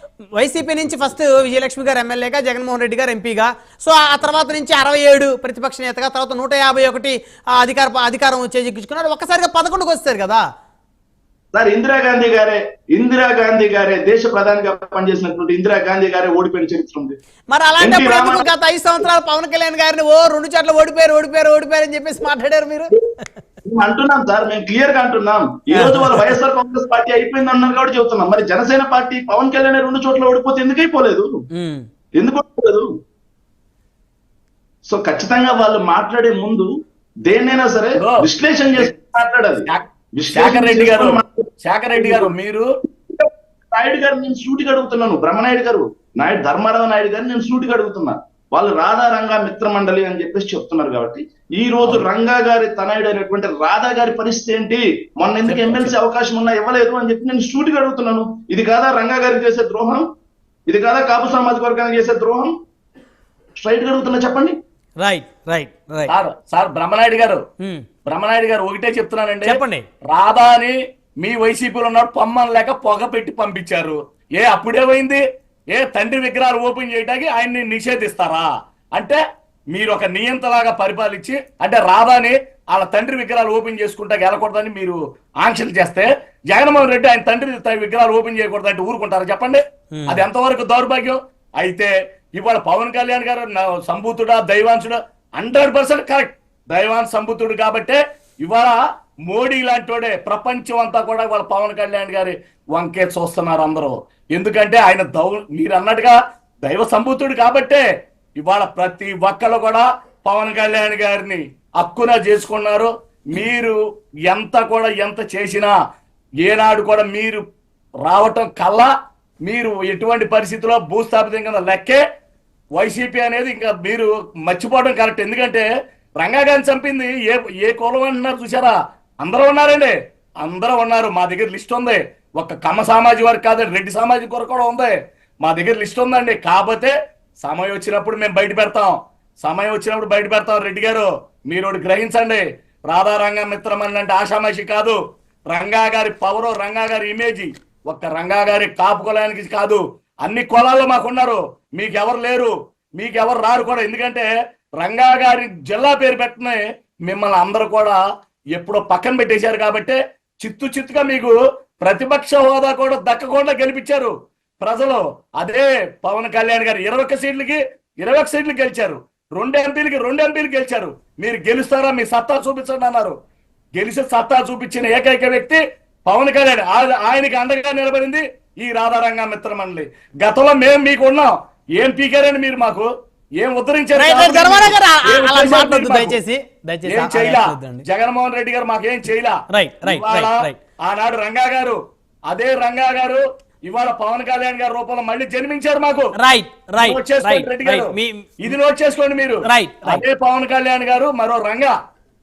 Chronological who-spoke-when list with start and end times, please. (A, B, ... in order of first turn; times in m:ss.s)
0:00.4-0:10.4 A
0:11.5-0:17.2 B
0:17.5-0:22.9 A
0:17.8-0:18.5 B
0:23.6-0:31.3 B
0:25.7-0:26.3 A
0:31.5-0:31.8 A
0:32.2-0:32.9 B
0:34.8-0:36.7 B
0:37.3-0:42.3 B
0:37.9-0:38.2 C
0:39.7-0:42.7 C
0:43.1-1:00.1 B
0:55.4-0:55.9 C
1:00.7-1:02.6 B
1:03.6-1:04.5 B
1:05.0-1:06.1 A
1:06.1-1:07.4 C
1:08.1-1:15.2 C
1:09.4-1:09.8 A
1:15.7-1:19.2 C
1:19.7-1:47.8 C
1:29.9-1:30.2 A
1:48.4-1:53.8 C
1:54.3-1:55.7 C
1:56.4-1:57.4 C
1:58.0-1:58.9 C
1:59.4-2:02.0 C
2:02.8-2:05.7 C
2:06.2-2:25.0 C
2:25.5-2:34.3 C
2:34.8-2:38.0 C
2:38.6-2:53.1 C
2:53.8-3:06.2 C
3:04.0-3:07.8 A
3:06.9-3:11.8 C
3:09.5-3:10.6 A
3:12.3-3:16.1 C
3:16.2-3:18.5 A
3:16.8-3:21.7 C
3:19.4-3:20.0 A